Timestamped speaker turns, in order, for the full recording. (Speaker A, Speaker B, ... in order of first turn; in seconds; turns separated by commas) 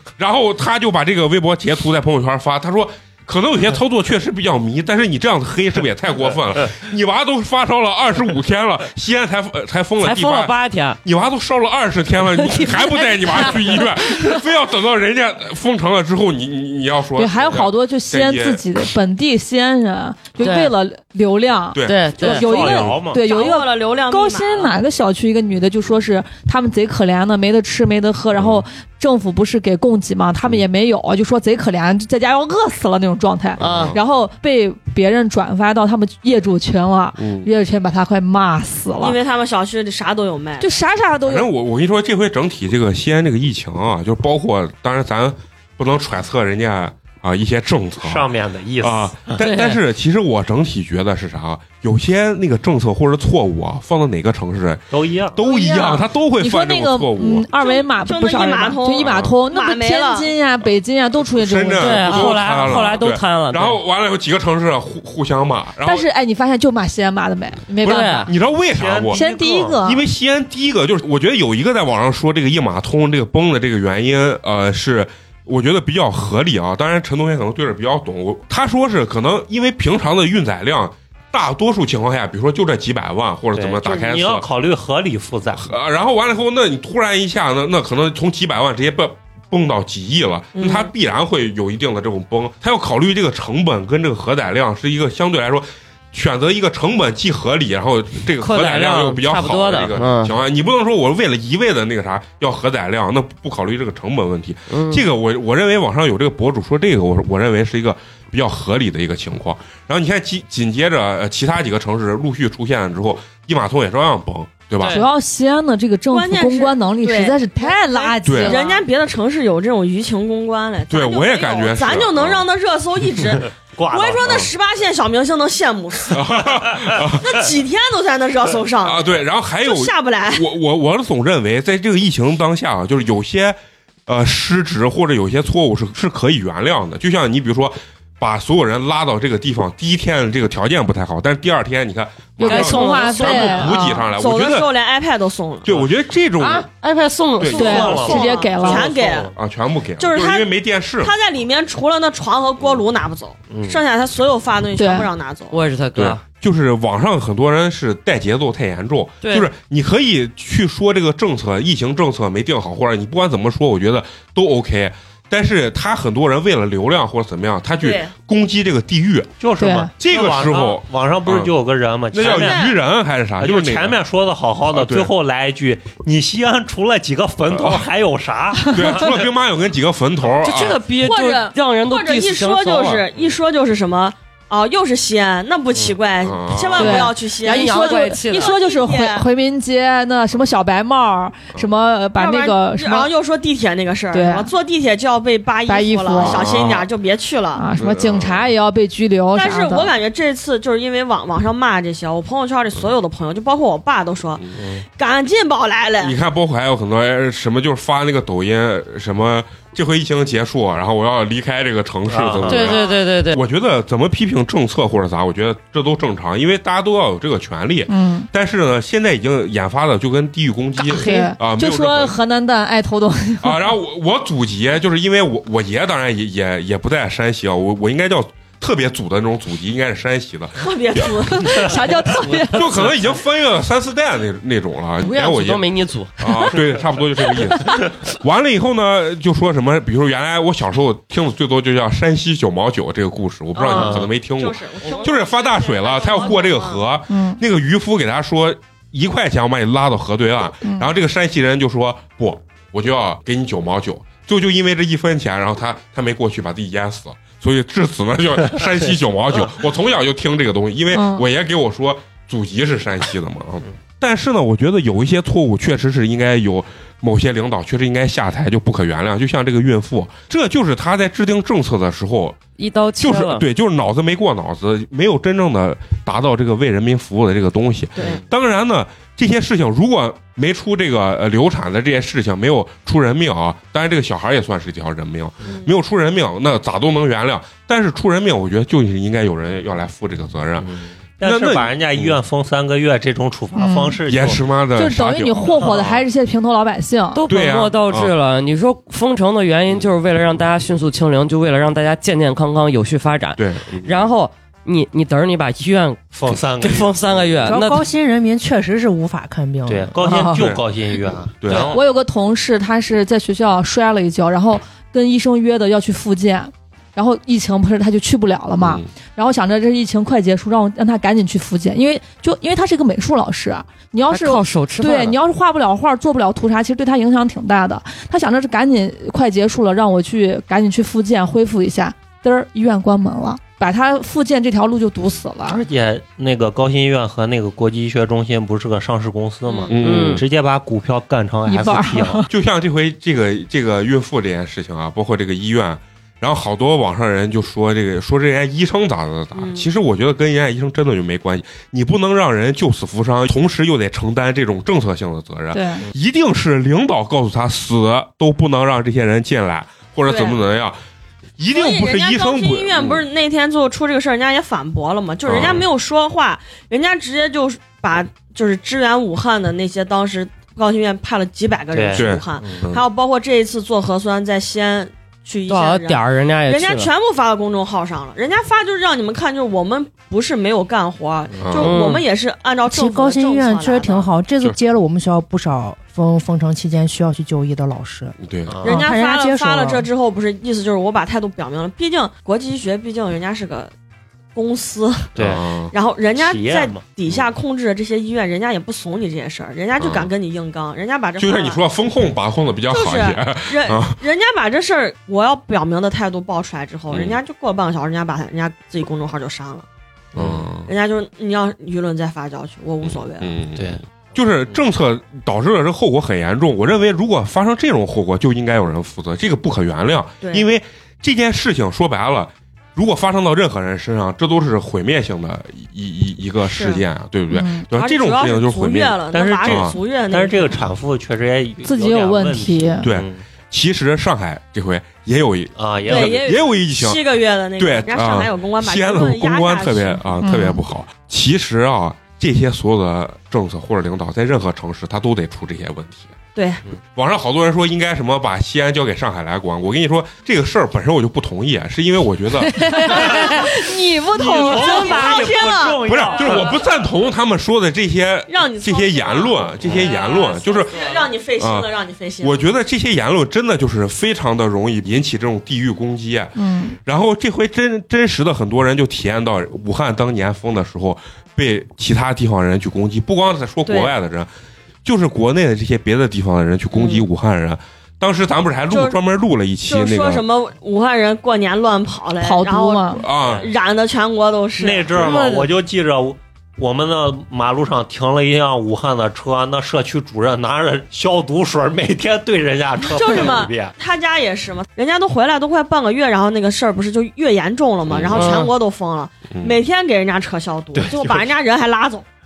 Speaker A: 0.2-18.6, Speaker B: 10.0-11.0, Speaker B: 12.4-13.9, Speaker C: 17.2-39.2, Speaker B: 20.4-20.7, Speaker A: 21.7-22.1, Speaker B: 21.9-22.7, Speaker D: 22.3-23.2, Speaker E: 23.2-24.8, Speaker A: 28.3-28.6, Speaker A: 33.6-34.0, Speaker B: 33.6-34.0, Speaker A: 37.2-37.5, Speaker E: 39.0-40.8, Speaker C: 40.6-41.5, Speaker A: 41.2-57.5, Speaker D: 48.0-49.4, Speaker B: 49.4-49.8, Speaker D: 54.9-55.4, Speaker C: 55.4-62.4, Speaker E: 57.5-60.3, Speaker A: 59.0-59.4, Speaker A: 61.4-66.1, Speaker B: 61.8-63.8, Speaker C: 65.8-68.3, Speaker A: 67.8-69.2, Speaker B: 67.8-68.3, Speaker D: 68.6-69.8, Speaker C: 69.1-70.0, Speaker A: 69.8-84.5, Speaker D: 83.6-85.7, Speaker A: 85.5-115.0, Speaker E: 90.5-90.9, Speaker B: 98.4-100.3, Speaker B: 104.7-105.0, Speaker B: 114.8-115.1, Speaker C: 114.9-118.8, Speaker E: 116.1-126.2, Speaker A: 118.2-118.6, Speaker A: 120.9-122.5, Speaker D: 123.8-124.5, Speaker A: 126.1-127.4, Speaker E: 127.2-130.5, Speaker A: 128.8-144.7, Speaker C: 142.4-144.0, Speaker B: 142.4-143.8, Speaker E: 144.0-145.7, Speaker A: 145.6-146.7, Speaker B: 146.4-148.1, Speaker A: 147.4-147.9, Speaker D: 147.5-149.4, Speaker C: 147.5-148.9, Speaker E: 147.6-149.3, Speaker A: 149.4-151.1, Speaker E: 150.0-155.6, Speaker D: 153.5-153.8, Speaker C: 154.8-155.1, Speaker B: 155.5-156.2, Speaker A: 155.9-169.3, Speaker B: 159.2-159.5, Speaker E: 167.8-168.1, Speaker D: 169.4-172.7, Speaker C: 169.6-169.9, Speaker A: 170.0-171.5, Speaker A: 172.1-174.0, Speaker E: 172.2-172.8, Speaker D: 173.4-179.3, Speaker A: 174.7-175.1, Speaker A: 177.5-177.9, Speaker A: 178.7-180.8, Speaker B: 180.4-183.0, Speaker E: 181.0-189.3, Speaker A: 186.2-187.0, Speaker C: 186.8-193.1, Speaker B: 187.4-188.5, Speaker E: 192.2-197.7, Speaker C: 194.1-194.5, Speaker C: 195.7-196.5, Speaker A: 196.2-196.9, Speaker C: 197.6-199.9, Speaker A: 197.8-198.5, Speaker E: 199.3-204.4, Speaker A: 204.4-204.6, Speaker D: 204.6-204.8, Speaker E: 205.0-206.2, Speaker A: 206.0-222.2, Speaker D: 212.1-212.7, Speaker B: 212.5-213.4, Speaker E: 212.7-213.0, Speaker C: 217.9-218.3, Speaker C: 220.8-223.7, Speaker A: 223.4-231.1, Speaker E: 230.6-231.8, Speaker C: 231.3-232.9, Speaker A: 232.5-272.4, Speaker B: 235.0-236.2, Speaker E: 243.6-246.8, Speaker D: 243.7-244.1, Speaker C: 247.1-247.4, Speaker C: 250.6-250.9, Speaker C: 260.9-261.2, Speaker B: 272.6-273.4, Speaker A: 273.0-292.2, Speaker E: 278.0-278.2, Speaker D: 290.6-294.4, Speaker C: 293.6-294.0, Speaker A: 294.1-295.9, Speaker C: 294.8-297.2, Speaker B: 297.1-307.9, Speaker A: 297.3-298.1, Speaker A: 303.4-304.0, Speaker D: 306.1-307.3, Speaker F: 307.5-310.4, Speaker D: 309.7-311.8, Speaker C: 310.1-310.4, Speaker A: 310.2-310.6, Speaker A: 311.4-311.8, Speaker C: 311.5-335.6, Speaker A: 318.6-318.9, Speaker B: 324.1-325.2, Speaker D: 335.5-342.2, Speaker E: 339.5-339.7, Speaker A: 339.7-340.2, Speaker B: 339.8-340.2, Speaker C: 341.5-342.3, Speaker A: 342.3-360.8, Speaker E: 349.4-349.7, Speaker C: 355.5-355.8, Speaker E: 360.1-360.4, Speaker A: 361.4-363.0, Speaker E: 361.5-384.1, Speaker A: 365.3-365.6, Speaker D: 371.7-372.7, Speaker A: 371.9-372.8, Speaker B: 375.5-376.9, Speaker A: 381.4-381.7, Speaker B: 381.6-382.0, Speaker F: 382.7-389.9, Speaker A: 388.2-388.6, Speaker D: 388.5-388.8, Speaker E: 388.6-393.7, Speaker E: 394.4-395.1, Speaker D: 395.2-395.4, Speaker A: 395.2-395.7, Speaker E: 395.7-401.6, Speaker D: 396.1-396.8, Speaker A: 399.8-400.1, Speaker A: 401.2-404.0, Speaker E: 402.7-409.7, Speaker A: 406.9-407.2, Speaker D: 410.1-410.5, Speaker A: 410.1-410.7, Speaker E: 410.7-413.4, Speaker A: 412.8-429.8, Speaker D: 413.6-413.8, Speaker E: 420.2-420.5, Speaker E: 426.5-426.8, Speaker C: 427.3-427.6, Speaker E: 427.7-430.6, Speaker D: 429.1-433.2, Speaker C: 431.6-432.9, Speaker A: 432.8-437.0, Speaker D: 435.6-436.2, Speaker E: 435.9-440.0, Speaker A: 437.6-446.1, Speaker C: 440.2-440.6, Speaker E: 446.4-446.6, Speaker A: 446.9-453.1, Speaker C: 452.4-455.3, Speaker D: 452.9-453.6, Speaker D: 454.1-456.6, Speaker E: 454.4-456.4, Speaker A: 455.9-460.7, Speaker E: 458.3-462.5, Speaker D: 459.6-459.9, Speaker A: 461.4-461.7, Speaker A: 462.2-474.3, Speaker C: 466.4-466.8, Speaker E: 473.7-473.9, Speaker A: 474.9-480.2, Speaker E: 476.7-477.1, Speaker E: 478.7-479.0, Speaker E: 479.6-485.1, Speaker C: 482.2-483.0, Speaker A: 483.0-483.5, Speaker D: 483.1-483.5, Speaker D: 484.6-493.7, Speaker C: 485.0-485.5, Speaker E: 492.9-502.1, Speaker A: 497.9-498.5, Speaker B: 498.2-498.5, Speaker A: 499.3-499.6, Speaker D: 500.8-501.3